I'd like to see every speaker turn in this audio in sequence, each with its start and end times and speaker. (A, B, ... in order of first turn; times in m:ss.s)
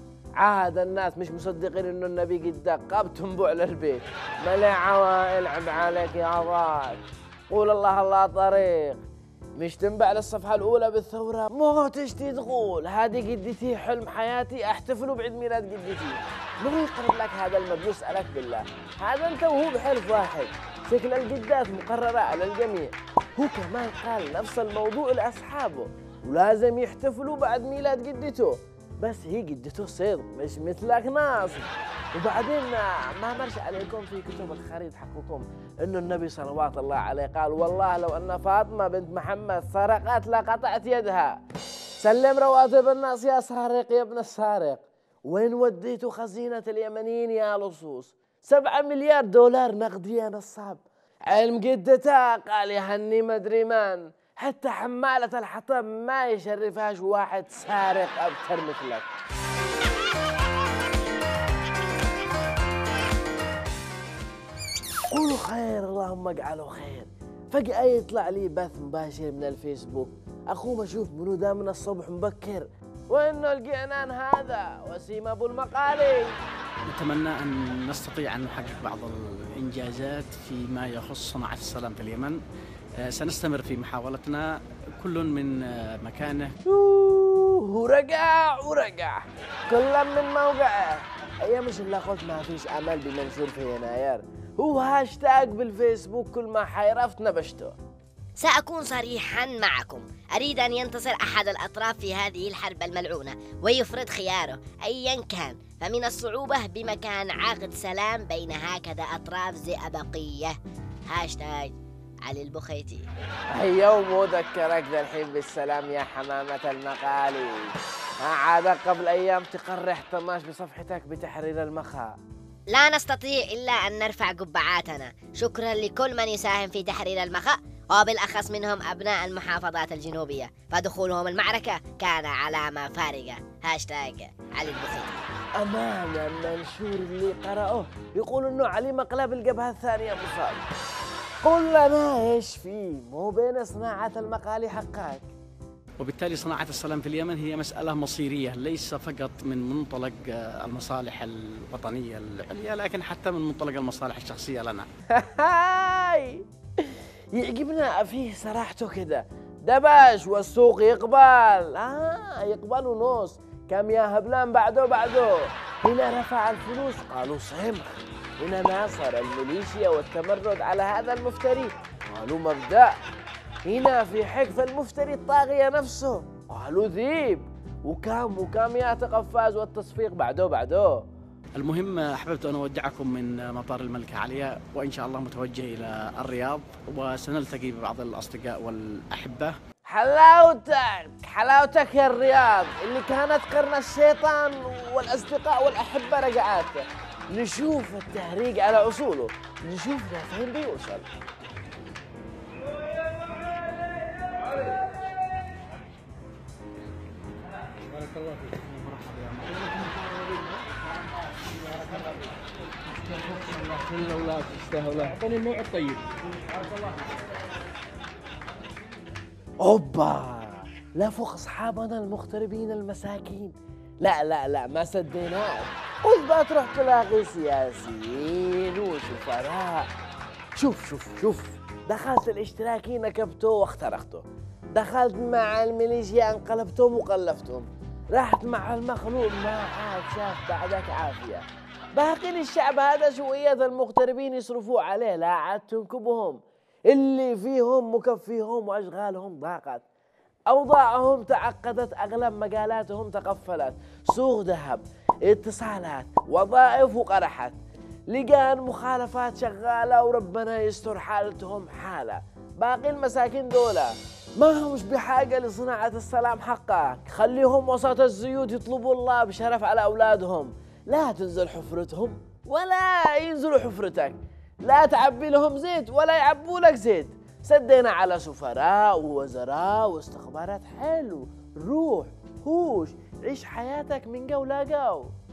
0:00.4-0:09.0 A
0:09.6-0:41.4 A
0:42.0-0:59.1 A
1:05.1-1:16.4 A
1:16.9-1:22.4 B
1:23.0-1:26.5 B
1:26.6-1:37.8 A
1:38.4-1:53.1 C
1:53.5-2:02.2 A
2:02.7-2:15.3 C
2:15.6-2:20.6 A
2:21.4-2:25.2 A
2:26.0-2:34.9 B
2:35.1-2:52.9 A
2:53.6-3:01.0 A
3:01.6-3:09.5 B
3:09.9-3:21.1 A
3:28.0-3:29.8 B
3:33.2-3:36.0 B
3:39.6-3:49.9 A
3:50.6-4:01.4 A
4:01.9-4:09.8 A
4:10.5-4:17.6 A
4:18.1-4:45.1 A